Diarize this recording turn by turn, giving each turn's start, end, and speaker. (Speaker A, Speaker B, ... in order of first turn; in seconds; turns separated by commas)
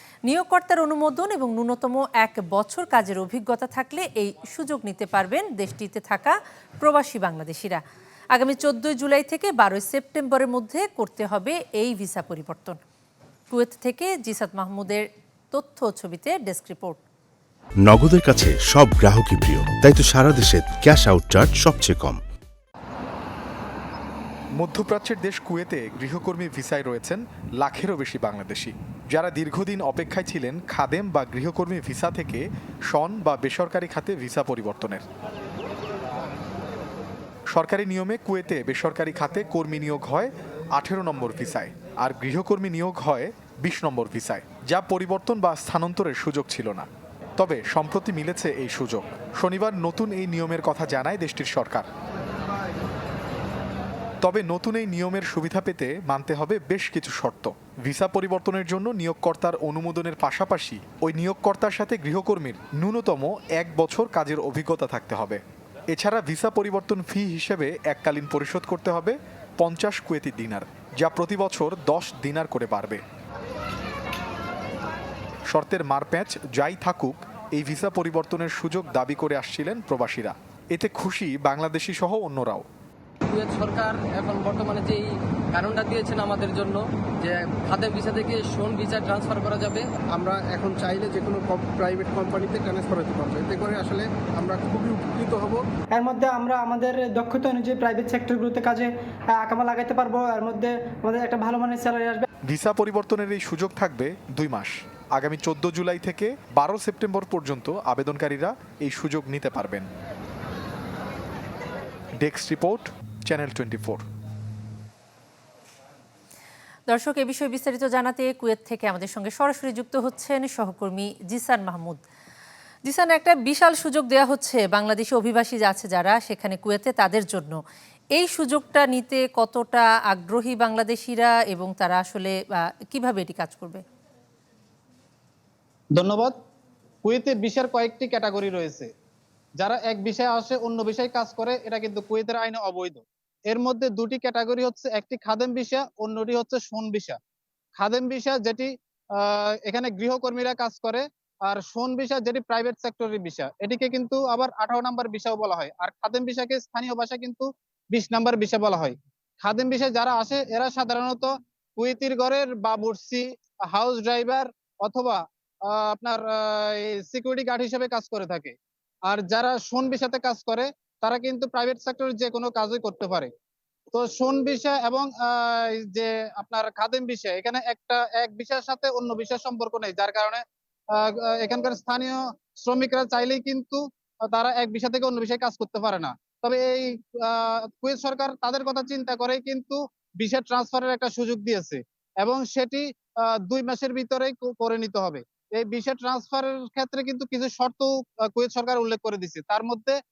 Speaker A: 0.3-7.8, Speaker A: 8.3-12.8, Speaker A: 13.5-17.0, Speaker B: 17.8-22.2, Speaker C: 24.6-35.1, Speaker C: 37.5-51.9, Speaker C: 54.2-65.4, Speaker C: 65.9-73.0, Speaker C: 75.5-82.7, Speaker D: 83.3-89.9, Speaker E: 90.1-95.6, Speaker F: 96.0-102.3, Speaker C: 102.5-109.9, Speaker C: 112.2-114.0, Speaker A: 116.9-122.0, Speaker A: 122.9-127.6, Speaker A: 128.2-133.8, Speaker G: 135.9-136.3, Speaker G: 137.1-138.9, Speaker G: 139.6-147.2, Speaker G: 147.8-168.5, Speaker G: 169.1-173.3, Speaker G: 173.9-180.4, Speaker G: 180.9-200.0